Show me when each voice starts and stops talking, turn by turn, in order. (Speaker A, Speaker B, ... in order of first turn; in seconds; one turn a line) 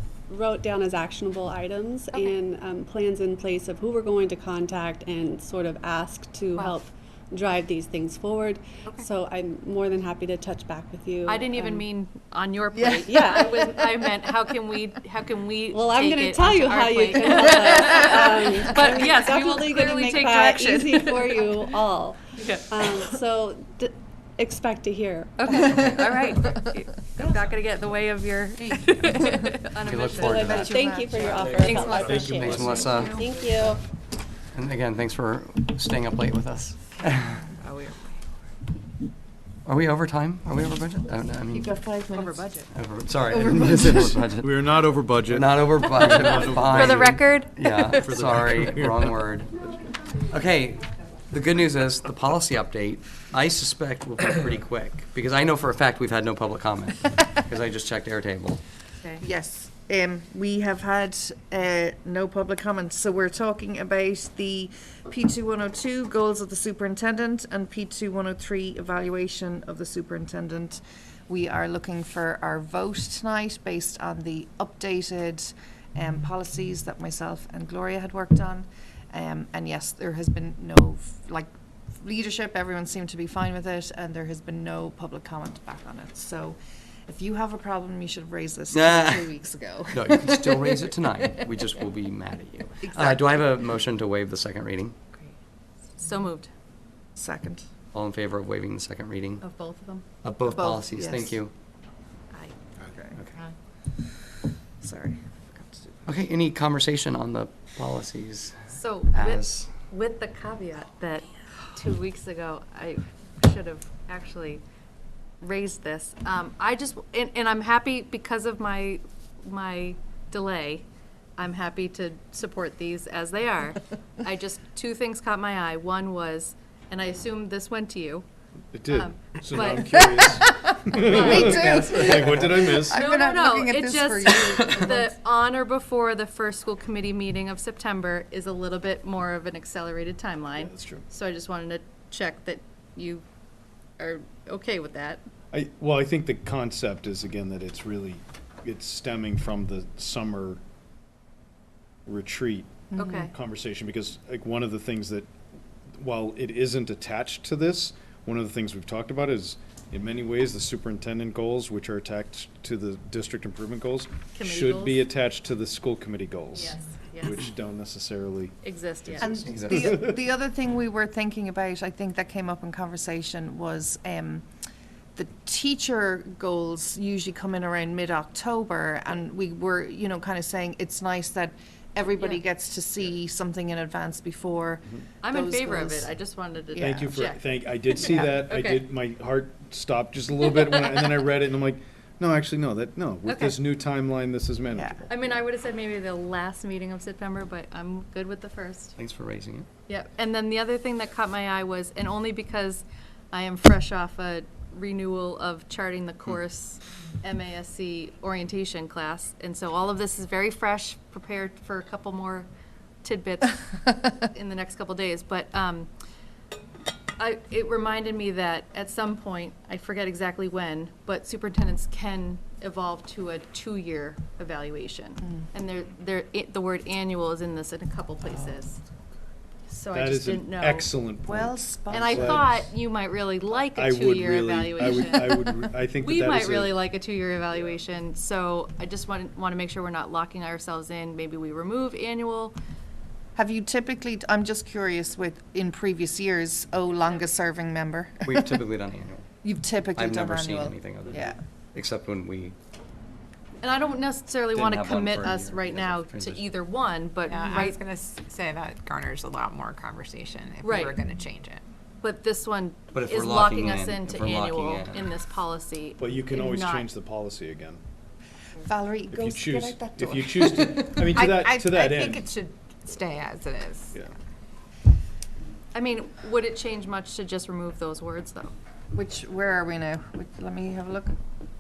Speaker A: 0.3-11.9
Speaker B: 11.3-21.5
Speaker C: 12.8-13.1
Speaker A: 13.1-13.9
Speaker A: 15.7-25.8
Speaker C: 20.4-21.0
Speaker B: 22.4-22.8
Speaker B: 25.4-33.5
Speaker C: 28.6-29.6
Speaker D: 29.8-30.7
Speaker A: 30.2-33.8
Speaker C: 30.6-32.3
Speaker E: 32.2-32.9
Speaker D: 32.3-33.2
Speaker D: 34.5-37.4
Speaker B: 37.5-38.2
Speaker D: 39.6-41.7
Speaker C: 41.5-42.5
Speaker B: 42.1-42.7
Speaker D: 42.7-44.7
Speaker C: 43.3-44.2
Speaker E: 44.3-47.3
Speaker D: 45.2-49.5
Speaker B: 46.0-48.1
Speaker E: 47.9-49.3
Speaker D: 50.3-58.6
Speaker C: 59.2-81.5
Speaker C: 82.0-86.6
Speaker C: 87.1-91.8
Speaker D: 88.7-89.3
Speaker D: 89.9-95.0
Speaker C: 92.8-93.6
Speaker B: 96.0-96.5
Speaker C: 97.2-97.6
Speaker D: 97.9-99.4
Speaker B: 99.4-100.0
Speaker D: 100.2-101.5
Speaker C: 100.5-101.4
Speaker C: 102.8-103.2
Speaker C: 104.8-106.2
Speaker D: 106.1-109.8
Speaker B: 108.7-114.6
Speaker B: 115.4-120.8
Speaker B: 121.4-128.2
Speaker E: 128.7-133.1
Speaker B: 128.9-130.0
Speaker C: 129.9-135.1
Speaker B: 131.0-131.6
Speaker D: 131.4-132.4
Speaker B: 132.9-143.2
Speaker E: 140.6-141.1
Speaker B: 144.0-145.2
Speaker E: 145.5-150.6
Speaker E: 152.1-155.3
Speaker C: 152.9-153.3
Speaker B: 153.0-153.3
Speaker E: 156.0-168.6
Speaker B: 164.3-165.1
Speaker B: 166.5-167.4
Speaker B: 168.6-169.3
Speaker E: 169.1-170.2
Speaker C: 169.2-174.4
Speaker D: 169.4-169.9
Speaker C: 175.2-186.1
Speaker B: 185.2-188.8
Speaker C: 186.7-187.2
Speaker E: 186.8-195.1
Speaker B: 190.5-191.1
Speaker B: 193.3-193.6
Speaker C: 194.7-195.0
Speaker B: 195.1-199.0
Speaker D: 199.0-199.7
Speaker B: 199.9-212.5
Speaker B: 213.0-215.9
Speaker B: 217.2-228.8
Speaker B: 229.7-230.9
Speaker E: 229.9-232.7
Speaker C: 231.3-232.5
Speaker B: 231.9-242.5
Speaker E: 233.8-236.8
Speaker C: 243.4-248.6
Speaker B: 246.9-247.3
Speaker D: 248.2-249.3
Speaker C: 249.4-251.4
Speaker D: 249.9-252.6
Speaker B: 253.6-257.8
Speaker D: 254.5-256.5
Speaker F: 257.3-261.6
Speaker B: 260.6-261.1
Speaker B: 262.0-266.9
Speaker D: 262.9-265.1
Speaker E: 266.0-267.8
Speaker C: 268.6-271.9
Speaker E: 269.1-272.3
Speaker F: 271.1-274.1
Speaker B: 275.7-278.5
Speaker C: 278.9-281.1